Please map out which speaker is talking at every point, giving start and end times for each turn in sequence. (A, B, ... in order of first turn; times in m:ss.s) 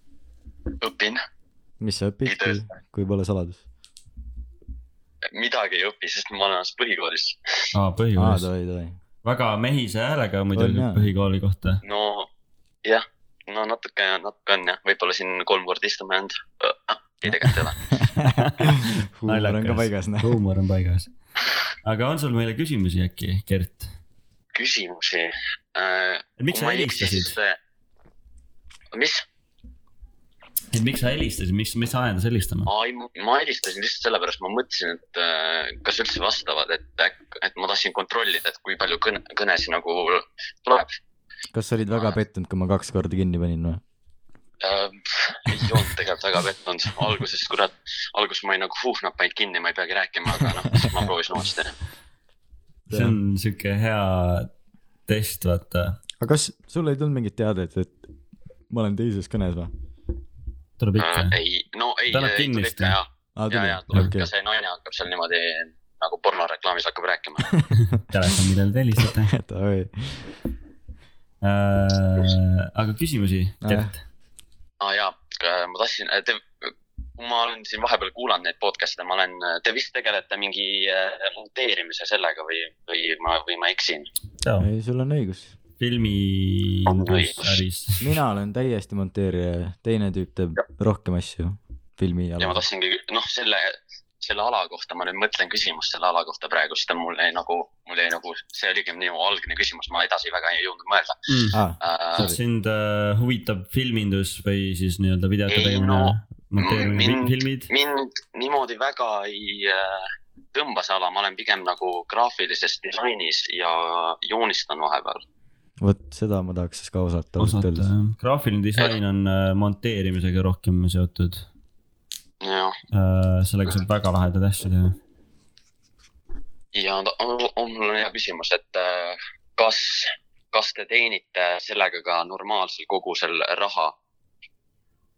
0:00.8-0:01.2 A
0:01.8-0:03.6 B
0:02.2-0:02.6 A
0:05.3-0:07.4 A
0:07.7-0:08.5 C
0:08.2-0:09.0 B
0:09.2-0:11.8 C
0:10.5-0:11.1 B
0:11.8-0:12.3 A
0:12.8-0:17.8 A
0:18.0-0:20.4 B
0:18.4-0:21.1 C
0:21.8-0:23.9 C
0:24.5-0:27.6 A
0:26.4-0:27.3 C
0:28.9-0:29.2 A
0:30.7-0:32.7 C
0:32.6-0:41.0 A
0:41.5-0:43.8 B
0:41.9-0:42.1 A
0:44.6-0:51.7 A
0:52.9-0:53.2 B
0:52.9-0:54.5 C
0:55.1-0:56.0 C
0:56.2-0:58.1 B
0:58.7-0:59.7 B
1:00.8-1:01.4 C
1:01.0-1:07.5 A
1:02.1-1:03.0 C
1:03.4-1:04.3 B
1:07.9-1:09.3 C
1:09.3-1:10.3 B
1:11.4-1:14.0 C
1:13.6-1:13.9 B
1:14.8-1:24.1 A
1:24.4-1:24.7 C
1:24.6-1:25.5 B
1:25.8-1:28.1 C
1:26.9-1:27.6 A
1:28.0-1:32.6 B
1:32.4-1:41.2 A
1:41.3-1:41.6 C
1:41.5-1:42.4 B
1:41.8-1:42.3 A
1:42.1-1:47.7 C
1:45.5-1:55.2 A
1:55.8-1:57.9 B
1:57.4-2:01.4 C
2:02.4-2:02.8 A
2:02.9-2:05.0 C
2:06.7-2:13.9 A